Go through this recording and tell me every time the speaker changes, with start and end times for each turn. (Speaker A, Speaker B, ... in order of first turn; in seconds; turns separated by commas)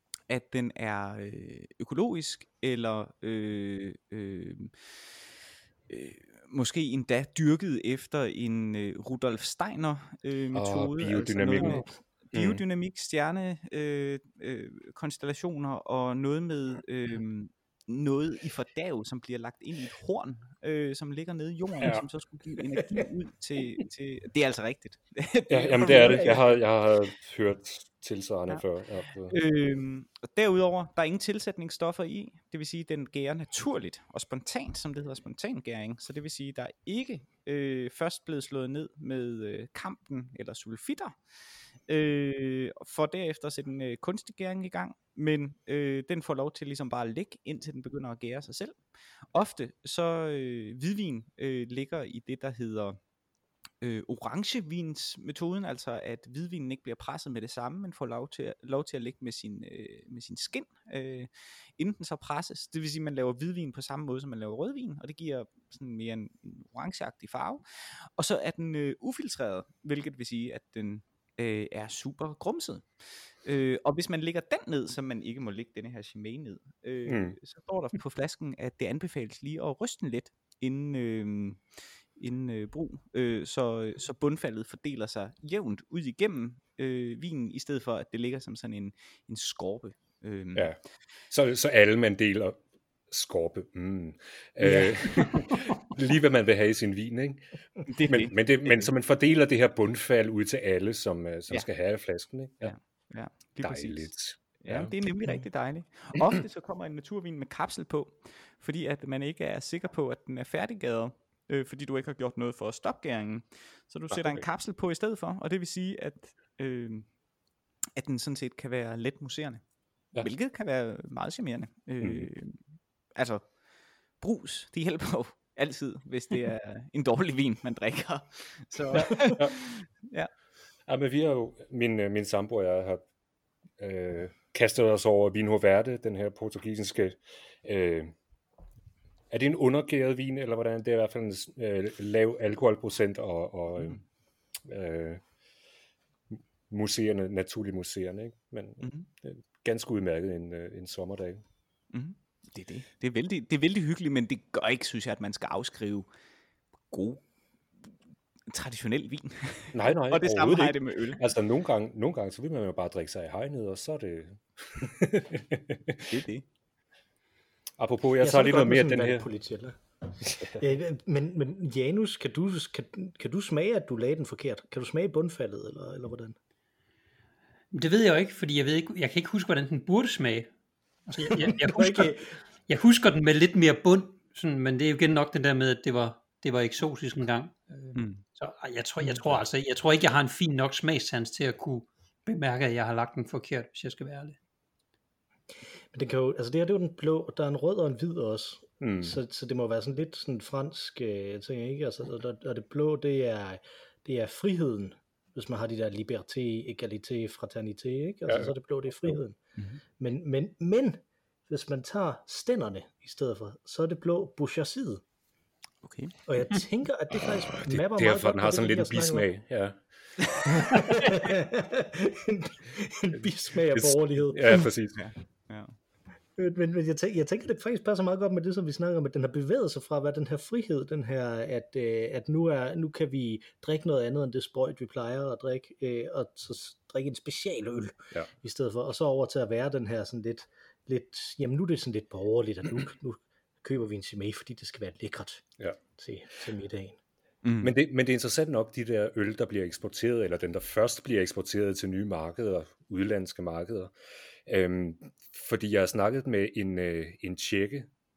Speaker A: 0.3-5.0, Speaker A: 5.9-26.6, Speaker B: 10.5-12.6, Speaker B: 21.8-22.0, Speaker B: 25.5-29.3, Speaker A: 29.2-41.1, Speaker A: 41.9-48.8, Speaker A: 49.3-53.0, Speaker A: 53.8-81.6, Speaker B: 77.0-77.4, Speaker A: 82.2-90.7, Speaker B: 91.3-97.4, Speaker A: 94.6-95.2, Speaker A: 97.8-98.9, Speaker B: 98.0-102.7, Speaker A: 102.6-117.2, Speaker B: 103.6-104.9, Speaker B: 114.1-114.4, Speaker A: 118.0-123.6, Speaker B: 122.0-122.3, Speaker A: 124.1-130.3, Speaker C: 128.9-129.3, Speaker B: 130.9-133.0, Speaker B: 133.8-138.1, Speaker B: 139.3-144.0, Speaker B: 144.6-145.2, Speaker B: 146.3-151.4, Speaker A: 148.8-149.1, Speaker A: 151.9-156.1, Speaker A: 156.9-157.2, Speaker A: 158.5-161.2, Speaker B: 159.7-166.1, Speaker A: 166.1-166.4, Speaker B: 167.8-169.3, Speaker C: 168.2-169.8, Speaker B: 170.2-170.6, Speaker C: 170.6-176.3, Speaker D: 177.7-180.5, Speaker D: 181.1-182.1, Speaker C: 181.4-182.3, Speaker D: 182.7-194.4, Speaker A: 187.9-188.2, Speaker C: 195.9-209.4, Speaker B: 198.8-199.2, Speaker B: 208.3-209.2, Speaker C: 210.0-215.0, Speaker A: 215.8-216.2, Speaker C: 216.3-219.3, Speaker B: 217.2-219.8, Speaker C: 220.5-224.7, Speaker B: 223.7-225.0, Speaker A: 224.9-225.8, Speaker C: 226.4-245.4, Speaker C: 246.0-247.0, Speaker A: 247.4-247.7, Speaker B: 247.6-253.9, Speaker B: 254.4-257.9